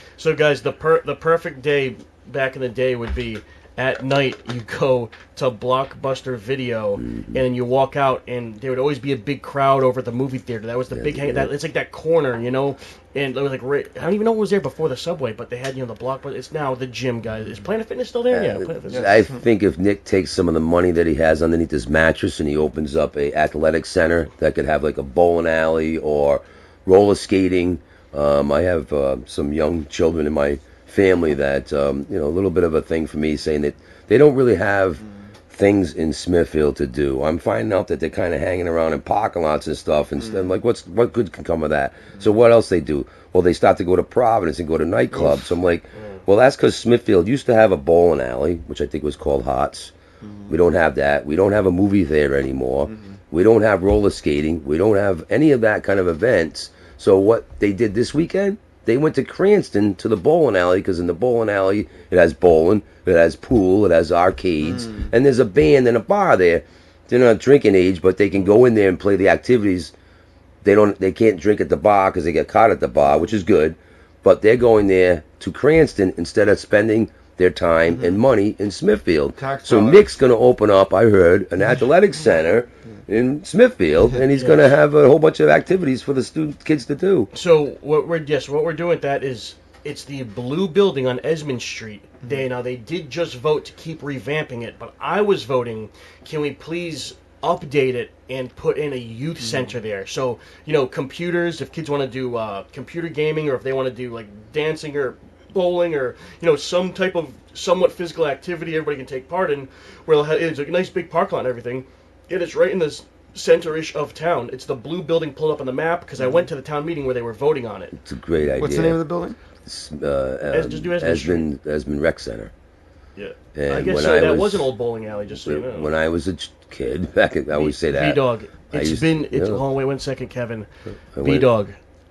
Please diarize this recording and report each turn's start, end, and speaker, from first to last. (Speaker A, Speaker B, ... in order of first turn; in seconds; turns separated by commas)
Speaker A: 0.2-19.2, Speaker B: 7.0-7.4, Speaker B: 10.9-11.5, Speaker B: 18.3-49.9, Speaker C: 18.9-19.4, Speaker C: 40.2-40.6, Speaker C: 45.1-45.5, Speaker C: 50.2-50.5, Speaker B: 50.5-69.9, Speaker C: 52.9-53.2, Speaker C: 64.6-65.1, Speaker B: 70.6-87.3, Speaker C: 77.9-78.2, Speaker C: 79.3-80.2, Speaker A: 84.3-84.8, Speaker A: 87.3-118.0, Speaker C: 99.4-99.7, Speaker C: 116.2-116.5, Speaker B: 118.0-119.0, Speaker C: 118.6-119.4, Speaker B: 119.6-122.5, Speaker A: 120.5-121.5, Speaker A: 123.2-125.9, Speaker B: 123.5-124.7, Speaker B: 125.3-129.6, Speaker A: 127.5-130.7, Speaker B: 131.1-131.5, Speaker A: 131.2-131.8